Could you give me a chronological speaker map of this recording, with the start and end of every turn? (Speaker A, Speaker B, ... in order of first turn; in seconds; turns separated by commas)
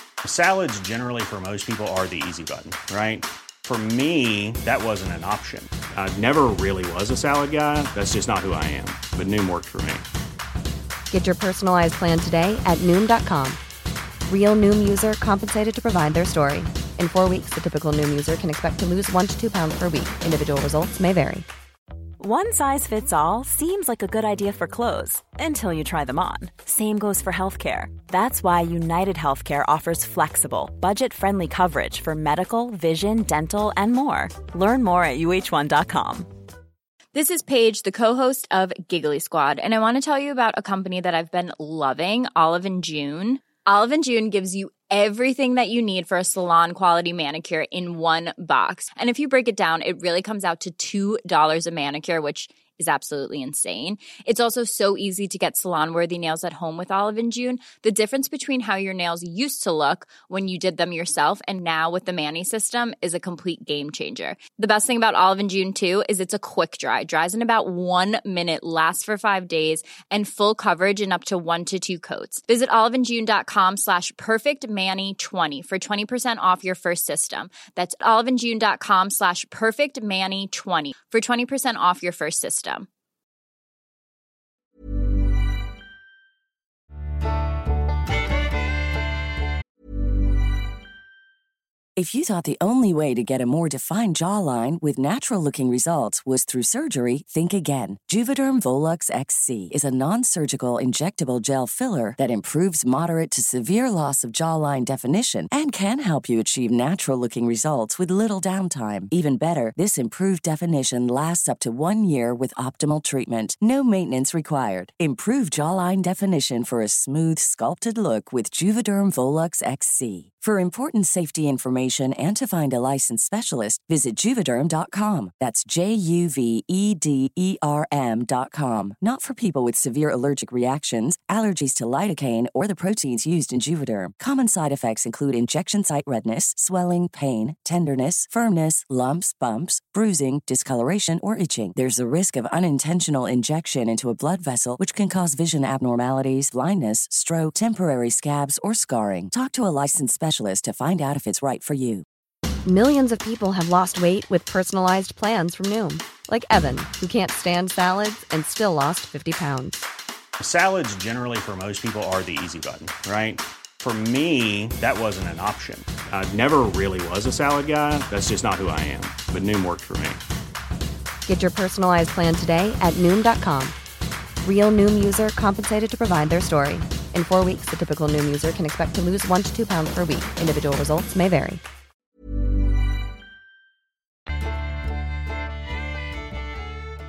Speaker A: 0.2-10.0, Speaker B: 11.1-13.6, Speaker B: 14.3-21.5, Speaker C: 22.2-36.3, Speaker D: 37.1-82.9, Speaker E: 92.0-152.0, Speaker B: 152.6-159.8, Speaker A: 160.4-170.2, Speaker B: 171.2-173.8, Speaker B: 174.4-181.6